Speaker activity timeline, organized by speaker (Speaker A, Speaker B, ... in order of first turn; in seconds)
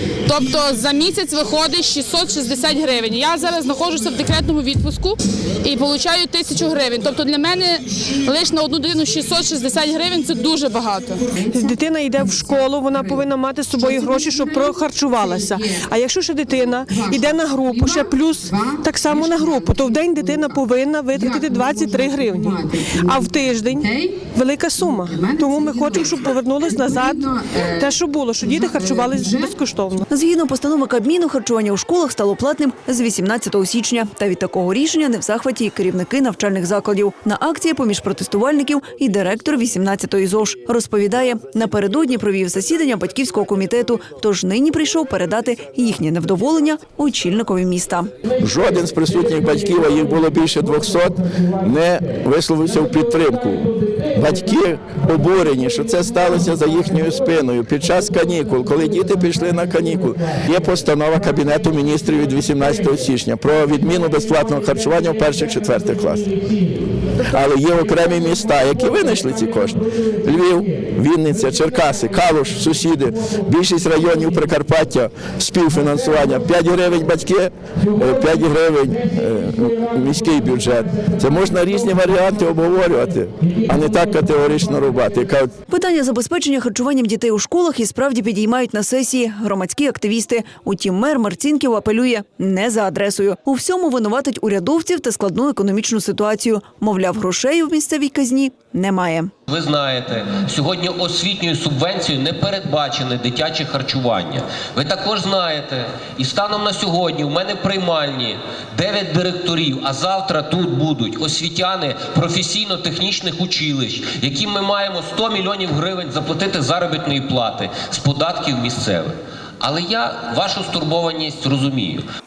Speaker A: 0.2-11.3
Speaker B: 11.4-30.1
Speaker C: 30.1-48.1, 85.7-99.3
Speaker D: 48.4-66.3, 67.3-85.5
Speaker E: 99.5-122.0